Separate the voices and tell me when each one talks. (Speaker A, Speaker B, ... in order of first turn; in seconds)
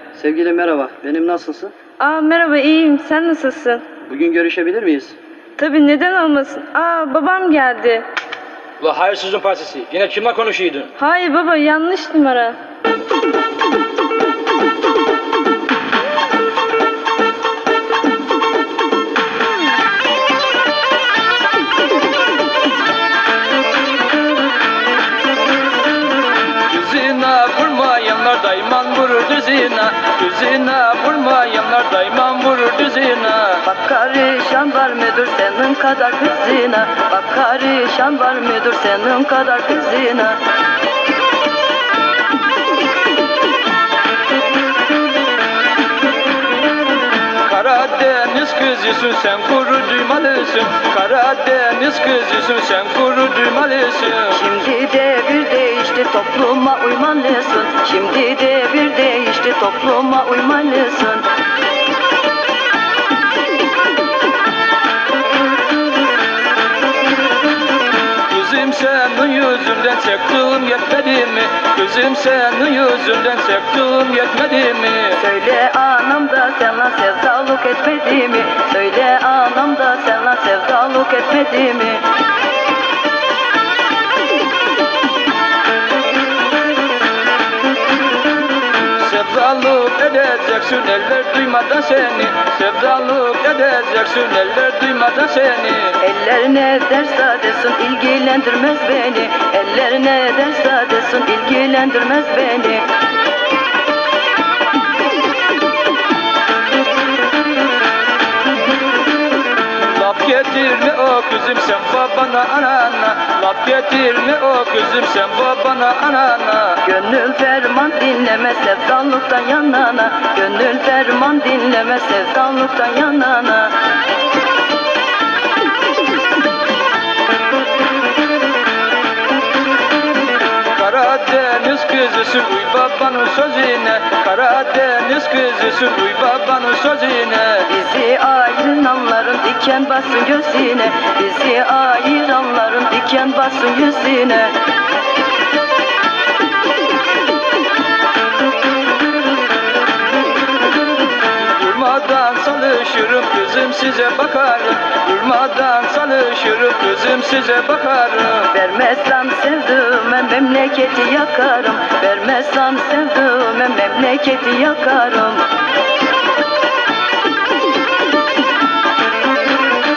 Speaker A: 0.2-1.7, 4.1-5.1
Speaker B: 0.7-1.6, 33.6-40.4, 54.3-61.2, 75.2-82.1, 96.0-102.9, 116.8-123.7, 137.7-144.6, 158.5-165.5
Speaker C: 2.0-3.8, 5.6-8.1, 11.0-12.6
Speaker D: 8.8-10.9, 26.7-33.6, 47.4-54.4, 68.3-75.2, 88.9-96.0, 109.7-116.8, 130.7-137.7, 151.4-158.5